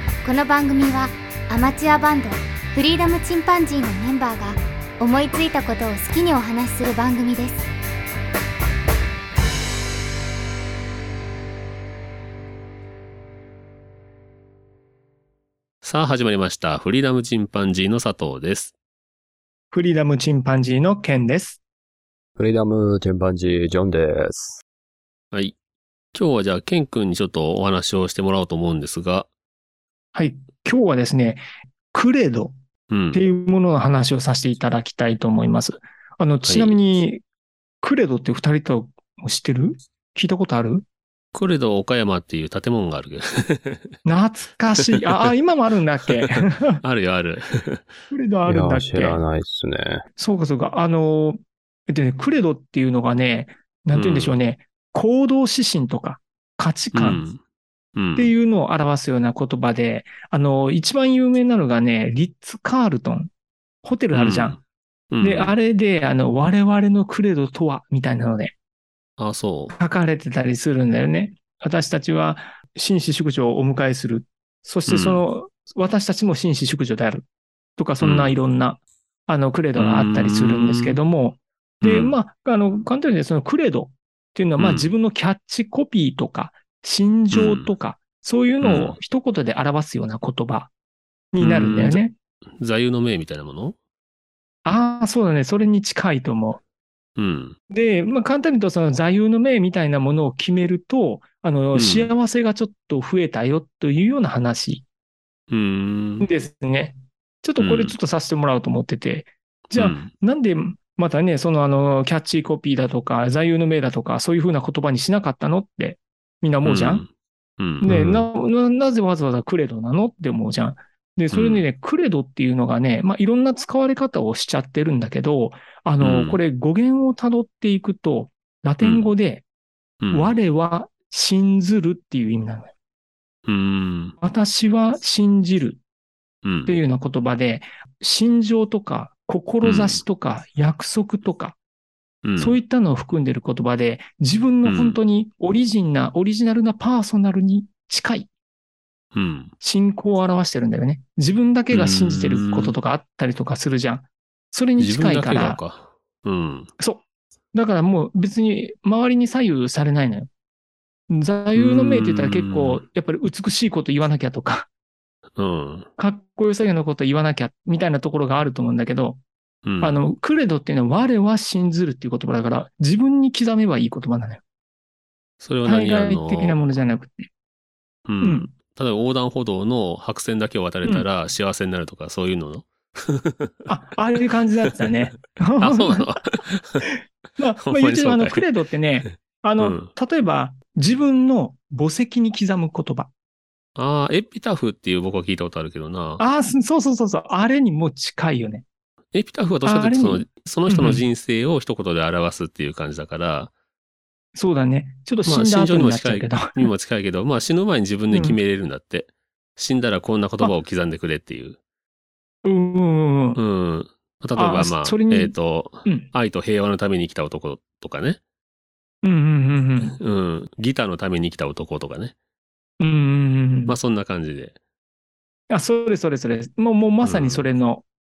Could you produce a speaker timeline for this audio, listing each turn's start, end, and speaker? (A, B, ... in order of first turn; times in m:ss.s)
0:00.2-0:07.7 A
0:15.8-0:18.7 B
0:19.7-0:21.6 C
0:22.4-0:24.6 D
0:26.1-0:29.3 B
0:30.1-0:31.4 C
0:31.9-0:32.5 C
0:32.9-0:33.2 B
0:33.1-0:37.2 C
0:36.4-0:36.8 B
0:37.8-0:40.8 C
0:41.3-0:44.0 B
0:44.0-0:46.8 C
0:44.8-0:45.2 B
0:46.8-0:47.9 B
0:48.1-0:49.2 C
0:48.5-0:50.0 D
0:50.2-0:57.2 C
0:53.9-0:54.3 B
0:56.9-0:57.4 B
0:58.0-0:58.3 B
0:58.2-1:03.3 C
1:03.8-1:04.6 C
1:04.1-1:05.5 B
1:05.2-1:08.5 C
1:09.2-1:09.8 B
1:09.7-1:17.2 C
1:14.9-1:15.2 B
1:17.8-1:30.7 C
1:18.0-1:18.3 B
1:19.8-1:21.0 B
1:21.8-1:22.2 B
1:24.6-1:24.9 B
1:27.3-1:27.7 B
1:28.6-1:29.0 B
1:31.3-1:32.1 C
1:31.4-1:32.0 B
1:32.6-1:33.8 B
1:34.6-1:36.6 C
1:37.2-1:37.6 B
1:37.7-1:44.8 C
1:41.7-1:42.1 B
1:45.5-1:46.3 B
1:46.2-1:57.0 C
1:47.6-1:47.9 B
1:49.7-1:50.1 B
1:56.6-1:58.3 B
1:57.8-2:09.4 C
2:01.3-2:01.6 B
2:06.0-2:06.4 B
2:08.8-2:09.1 B
2:10.0-2:10.3 B
2:10.1-2:12.7 C
2:13.4-2:14.2 B
2:14.2-2:15.8 C
2:16.4-2:16.8 B
2:16.6-2:21.6 C
2:19.6-2:20.0 B
2:22.2-2:22.6 B
2:22.4-2:28.3 C
2:24.6-2:25.0 B
2:29.1-2:29.5 B
2:29.6-2:35.6 C
2:31.7-2:32.7 B
2:34.8-2:36.7 B
2:36.8-2:40.3 C
2:41.1-2:44.7 C
2:41.5-2:42.8 B
2:45.4-2:45.9 B
2:46.0-2:49.2 C
2:49.6-2:50.0 B
2:49.8-2:54.4 C
2:55.4-2:56.6 B
2:55.6-2:57.3 C
2:58.0-3:03.7 B
2:58.2-2:58.5 C
3:03.7-3:06.1 C
3:05.6-3:06.8 B
3:06.8-3:13.1 C
3:07.6-3:08.4 B
3:09.0-3:09.9 B
3:13.8-3:16.2 B
3:16.2-3:18.6 C
3:19.1-3:23.5 B
3:19.6-3:21.0 C
3:24.3-3:26.7 C
3:25.2-3:31.6 B
3:28.1-3:28.4 C
3:32.4-3:33.4 C
3:33.4-3:38.2 B
3:34.4-3:36.1 C
3:39.0-3:40.0 C
3:39.8-3:42.1 B
3:42.8-3:43.8 C
3:43.7-3:44.6 B
3:45.5-3:47.8 C
3:47.0-3:47.4 B